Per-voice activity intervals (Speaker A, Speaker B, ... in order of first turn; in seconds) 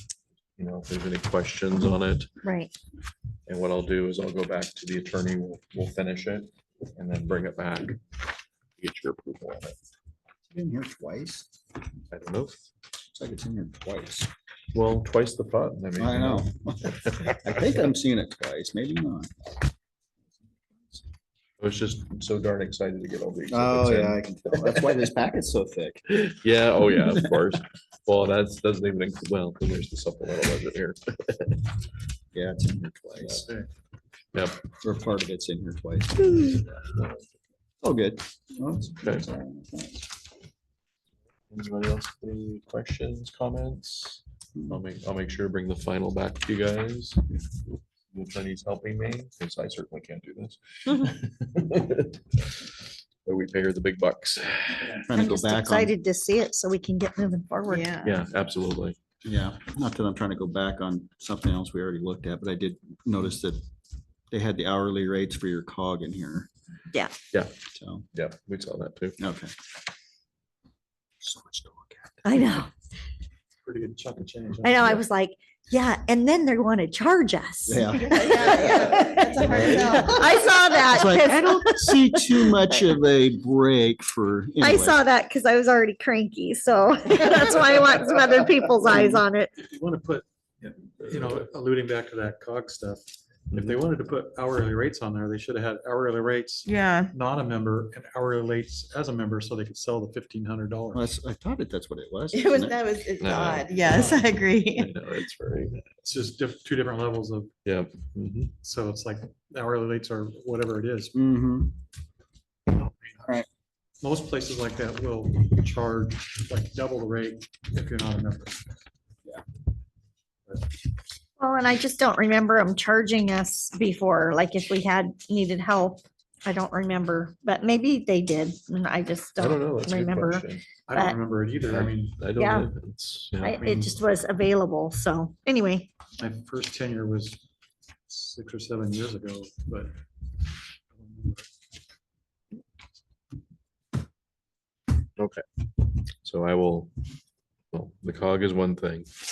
Speaker A: 0.6-2.3, 3.5-8.0, 8.8-9.8, 12.1-12.6, 14.7-17.9, 21.6-24.9, 26.1-31.7, 33.2-33.5, 34.3-34.6, 36.8-37.2, 39.0-39.3, 41.5-47.4, 48.1-52.4, 53.2-55.0, 58.0-59.0, 68.1-69.2, 93.5-93.8, 103.2-105.9, 107.6-108.5, 129.4-130.7, 131.7-133.6, 145.2-145.4, 146.2-146.9, 147.7-149.1
Speaker B: 2.4-2.7, 55.1-57.9, 72.2-72.7, 74.6-82.6, 84.6-89.5, 121.4-131.2, 132.3-132.7, 133.4-135.9
Speaker C: 10.5-11.5, 13.1-14.3, 16.0-19.5, 23.5-26.1, 32.3-33.5, 34.8-36.6, 37.8-40.1, 55.1-55.9, 59.2-63.6, 64.3-66.5, 67.7-68.0, 69.2-69.5, 71.2-72.2, 77.7-85.0, 100.9-102.9, 111.1-111.8, 113.2-113.5
Speaker D: 57.7-58.1, 78.1-80.2, 96.7-97.1, 102.3-104.9
Speaker E: 73.6-75.0, 89.6-101.1, 103.8-104.2, 106.0-107.5, 108.6-111.1, 114.0-118.6, 130.9-132.2, 133.6-133.9, 136.2-137.4, 138.1-140.0, 140.9-141.5